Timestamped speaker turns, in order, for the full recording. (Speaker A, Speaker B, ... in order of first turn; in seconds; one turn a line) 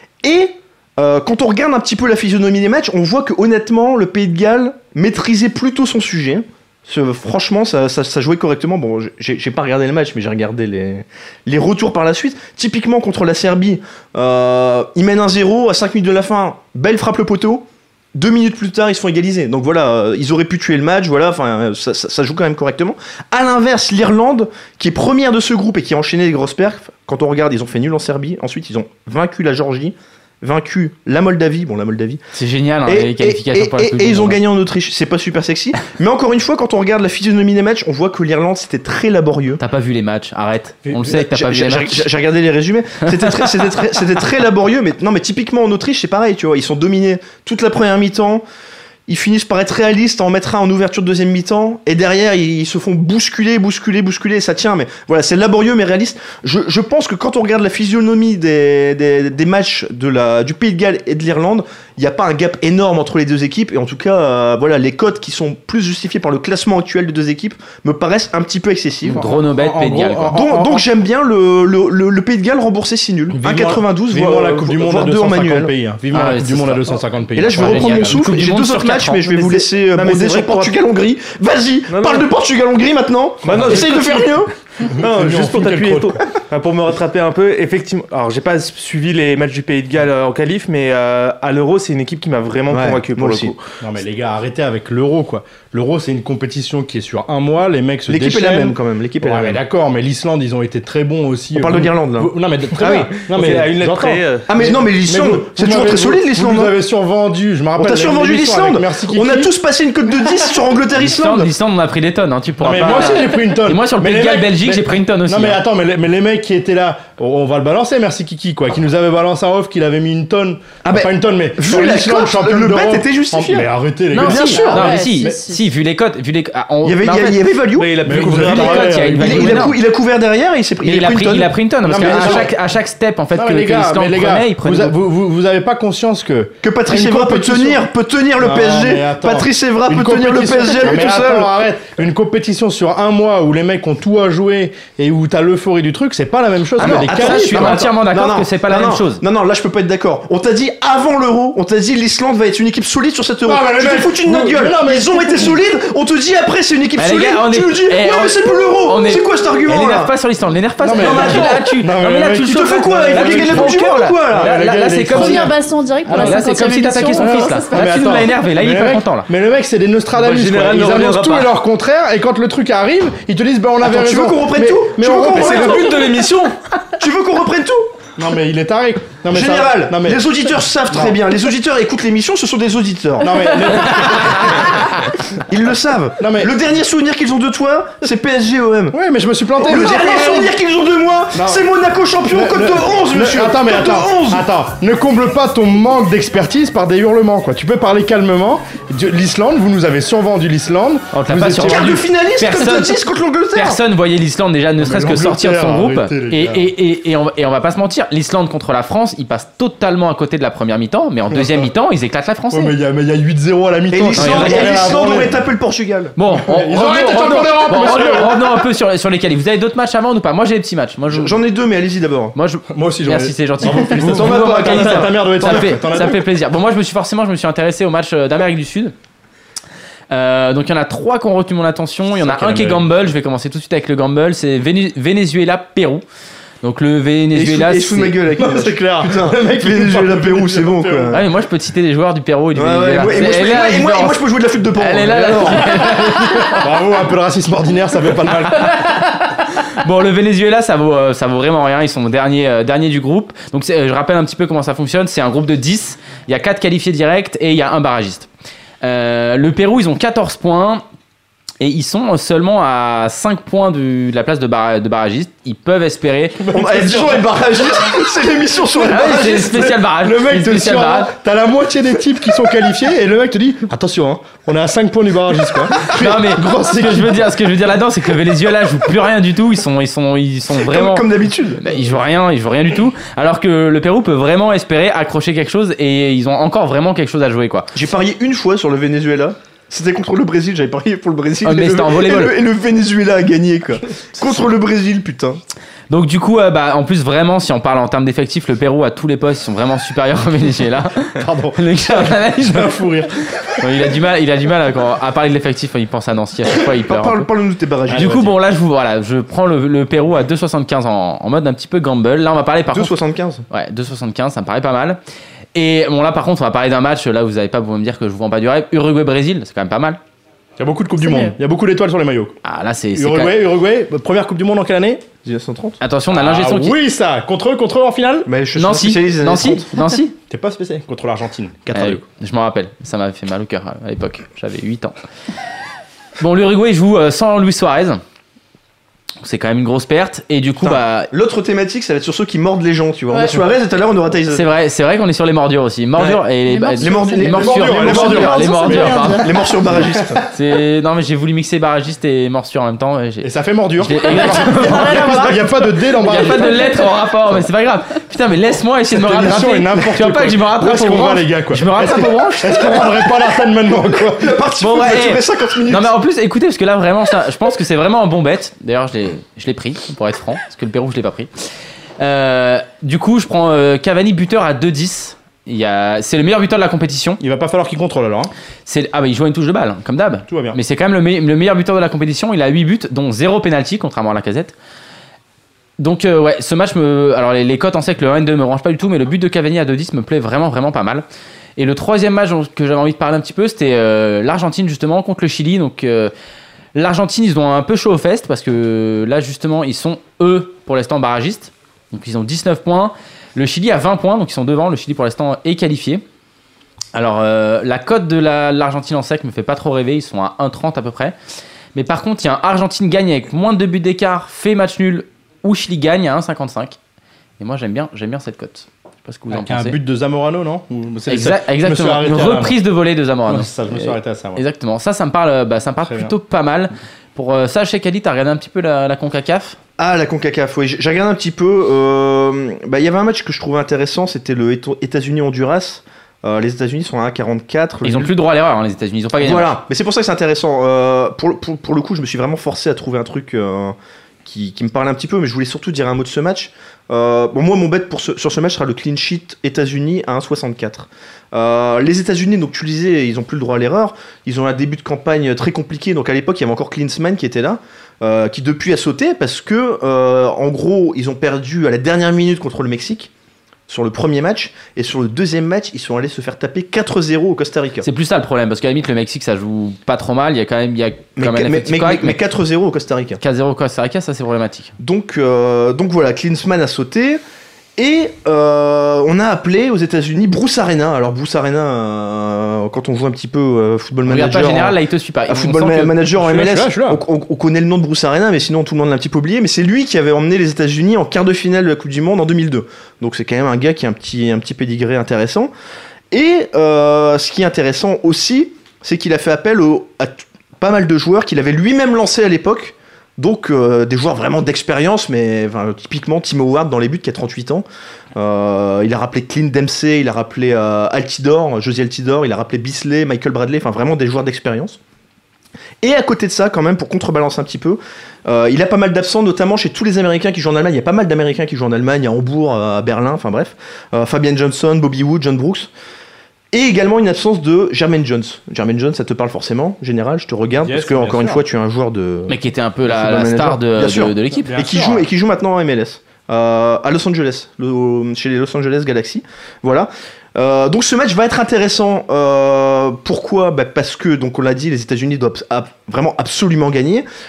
Speaker A: 0.2-32.2
Speaker B: 32.3-34.4
Speaker A: 32.9-39.6
Speaker B: 39.6-42.1
Speaker A: 40.9-48.4
Speaker A: 49.1-69.2
Speaker B: 69.0-70.4
Speaker C: 69.1-70.8
Speaker A: 70.3-75.7
Speaker C: 73.3-78.2
Speaker B: 76.1-79.3
Speaker A: 77.3-84.5
Speaker D: 79.3-80.8
Speaker D: 81.9-82.3
Speaker D: 83.4-84.3
Speaker D: 84.8-93.6
Speaker C: 85.0-86.2
Speaker A: 92.7-93.5
Speaker C: 93.8-109.5
Speaker A: 98.1-99.6
Speaker A: 101.5-103.5
Speaker D: 103.2-104.5
Speaker A: 104.5-106.7
Speaker A: 107.8-111.5
Speaker B: 111.0-115.6
Speaker C: 112.6-125.4
Speaker A: 120.8-123.7
Speaker B: 124.1-127.5
Speaker A: 124.2-124.9
Speaker E: 124.2-125.6
Speaker A: 126.8-132.5
Speaker D: 127.7-129.1
Speaker C: 128.0-129.8
Speaker B: 128.3-129.8
Speaker B: 130.8-134.9
Speaker C: 131.8-132.5
Speaker C: 133.3-147.9
Speaker A: 136.6-141.5
Speaker B: 146.8-149.2
Speaker A: 146.8-160.1
Speaker C: 153.4-155.6
Speaker B: 157.0-165.5
Speaker C: 160.8-165.5
Speaker A: 160.9-161.7
Speaker A: 162.4-164.5
Speaker E: 165.1-167.7
Speaker C: 166.1-166.5
Speaker B: 166.1-169.3
Speaker C: 167.1-176.0
Speaker D: 170.2-171.5
Speaker A: 173.8-176.1
Speaker D: 175.3-176.5
Speaker A: 177.0-177.9
Speaker C: 178.2-180.2
Speaker A: 179.3-184.8
Speaker C: 180.9-181.2
Speaker C: 183.2-184.7
Speaker A: 185.4-188.9
Speaker C: 186.2-186.5
Speaker C: 188.9-190.5
Speaker A: 189.6-194.4
Speaker C: 191.3-191.7
Speaker C: 192.3-201.9
Speaker B: 201.1-212.7
Speaker A: 201.5-203.8
Speaker C: 204.8-206.7
Speaker C: 211.3-211.7
Speaker C: 212.5-215.4
Speaker A: 213.9-216.1
Speaker B: 214.1-215.0
Speaker B: 216.2-221.4
Speaker C: 216.4-218.6
Speaker A: 221.1-222.3
Speaker B: 222.3-228.9
Speaker C: 222.7-226.2
Speaker A: 223.7-226.1
Speaker B: 230.1-236.0
Speaker C: 232.1-232.8
Speaker B: 236.6-238.2
Speaker A: 237.3-241.2
Speaker C: 238.3-241.2
Speaker B: 241.1-246.6
Speaker A: 242.5-246.3
Speaker C: 246.5-248.7
Speaker B: 248.5-258.3
Speaker B: 258.8-260.8
Speaker B: 261.6-266.5
Speaker C: 266.4-268.1
Speaker A: 266.5-269.8
Speaker C: 268.7-277.3
Speaker B: 268.9-271.1
Speaker B: 275.9-281.1
Speaker A: 280.5-281.6
Speaker B: 281.6-287.7
Speaker A: 287.7-295.4
Speaker B: 291.4-292.4
Speaker B: 295.9-302.8
Speaker C: 301.1-303.1
Speaker B: 303.6-307.3
Speaker A: 306.8-308.4
Speaker B: 307.9-312.9
Speaker A: 312.7-313.4
Speaker B: 313.5-315.0
Speaker B: 315.5-320.0
Speaker C: 320.6-322.4
Speaker E: 321.0-321.3
Speaker B: 322.4-323.4
Speaker C: 322.9-325.0
Speaker A: 325.2-325.8
Speaker B: 325.8-326.8
Speaker C: 326.1-328.3
Speaker A: 328.2-329.7
Speaker B: 328.6-330.1
Speaker C: 330.3-332.0
Speaker B: 331.7-334.9
Speaker B: 336.2-338.0
Speaker B: 339.2-341.1
Speaker A: 340.6-344.4
Speaker E: 343.1-343.4
Speaker B: 344.3-349.3
Speaker A: 346.0-346.2
Speaker E: 346.5-347.2
Speaker A: 346.8-350.2
Speaker C: 347.2-350.2
Speaker B: 350.3-362.9
Speaker C: 353.2-356.8
Speaker E: 354.5-355.3
Speaker E: 356.3-356.8
Speaker C: 358.9-364.4
Speaker A: 364.2-365.9
Speaker B: 364.6-371.3
Speaker B: 372.0-377.2
Speaker C: 377.2-378.3
Speaker B: 378.6-384.5
Speaker C: 380.3-380.6
Speaker B: 385.8-391.0
Speaker B: 391.6-396.1
Speaker B: 396.7-406.0
Speaker B: 406.9-411.1
Speaker B: 411.7-416.8
Speaker B: 417.4-419.8
Speaker C: 419.3-422.6
Speaker B: 421.1-429.6
Speaker C: 423.3-424.4
Speaker C: 425.8-426.1
Speaker A: 429.8-438.1
Speaker B: 437.8-439.6
Speaker A: 439.2-463.1
Speaker A: 463.7-467.9
Speaker B: 467.8-472.2
Speaker A: 471.2-473.2
Speaker B: 473.2-474.7
Speaker A: 474.8-477.2
Speaker A: 477.8-484.8
Speaker B: 484.1-485.9
Speaker A: 485.3-495.5
Speaker C: 486.1-487.0
Speaker A: 496.1-514.8
Speaker A: 515.8-525.7
Speaker A: 526.5-532.3
Speaker C: 530.6-531.4
Speaker B: 532.3-534.5
Speaker A: 532.9-547.0
Speaker C: 534.4-535.1